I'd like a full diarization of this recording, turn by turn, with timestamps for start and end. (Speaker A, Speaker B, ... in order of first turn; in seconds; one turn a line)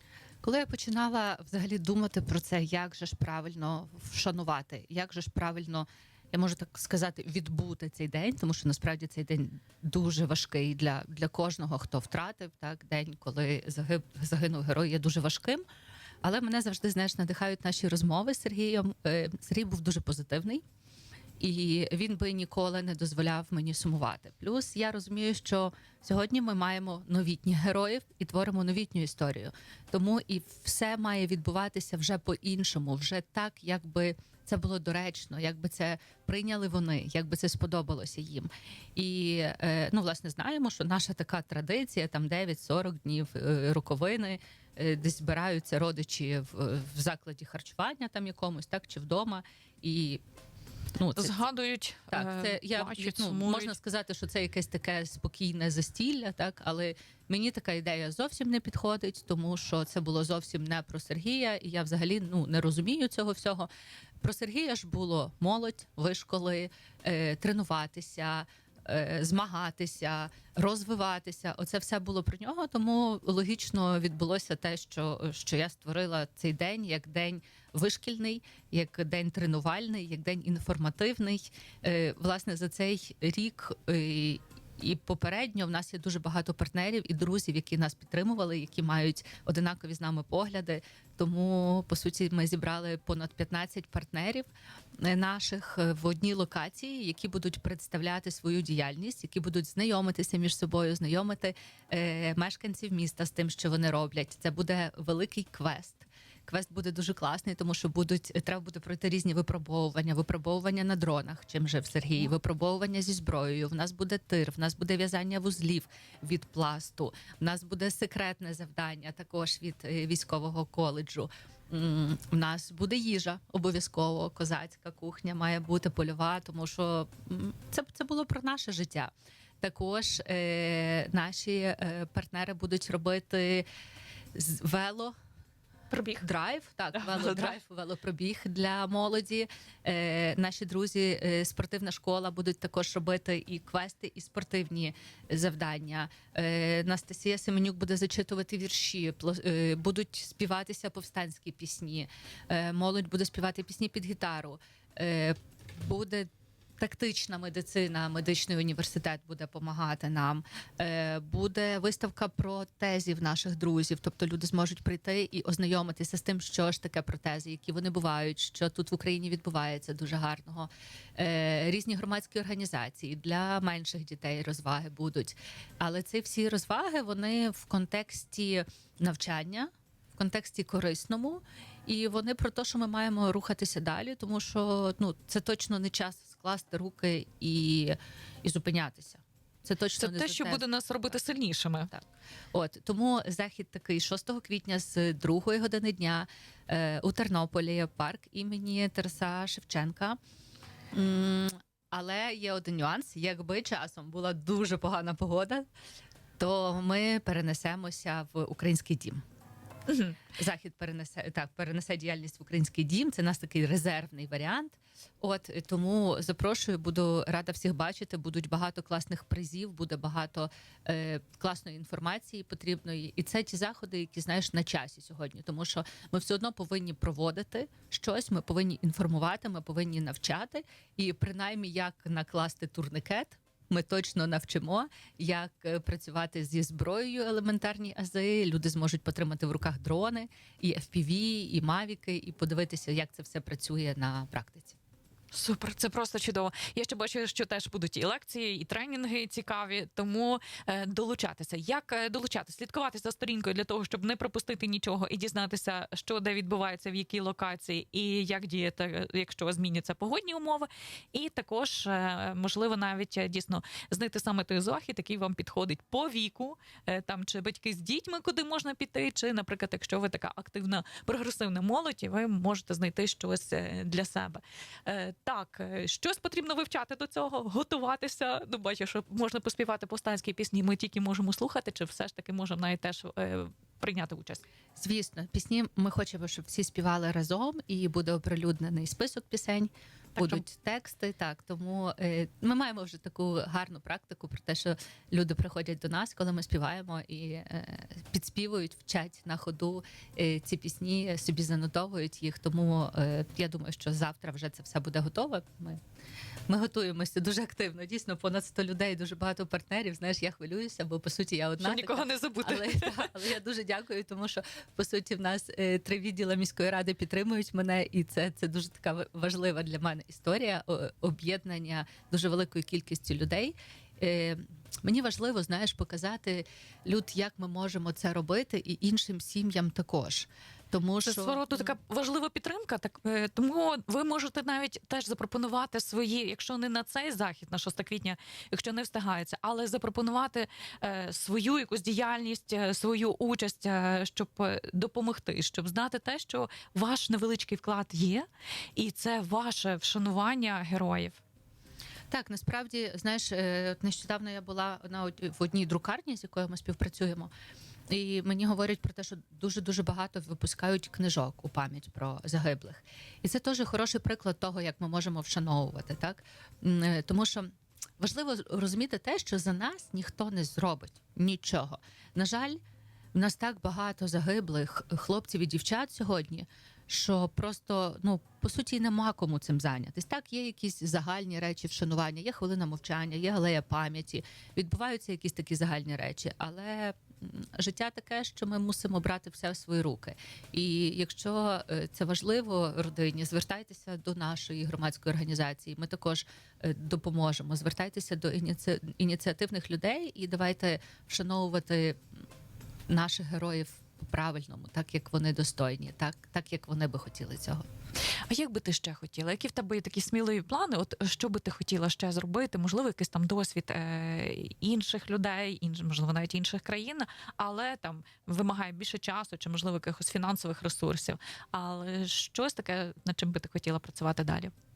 Speaker A: 0.4-15.6
Speaker A: 16.2-20.6
Speaker A: 21.4-50.2
Speaker A: 51.0-51.4
Speaker B: 51.2-53.8
Speaker A: 52.1-63.7
Speaker A: 64.2-133.7
Speaker A: 134.3-135.1
Speaker B: 135.9-136.2
Speaker A: 136.2-190.6
Speaker B: 136.9-137.6
Speaker B: 190.0-191.9
Speaker A: 191.9-200.2
Speaker A: 200.9-205.7
Speaker A: 206.4-209.2
Speaker B: 209.9-210.2
Speaker A: 210.3-244.8
Speaker B: 245.3-284.4
Speaker A: 284.8-305.8
Speaker B: 290.2-290.4
Speaker A: 306.5-331.7
Speaker B: 311.6-313.1
Speaker B: 331.0-348.2
Speaker B: 348.8-351.2
Speaker A: 352.1-357.3
Speaker A: 357.9-372.6
Speaker A: 373.1-402.0
Speaker A: 402.9-407.6
Speaker B: 408.3-424.5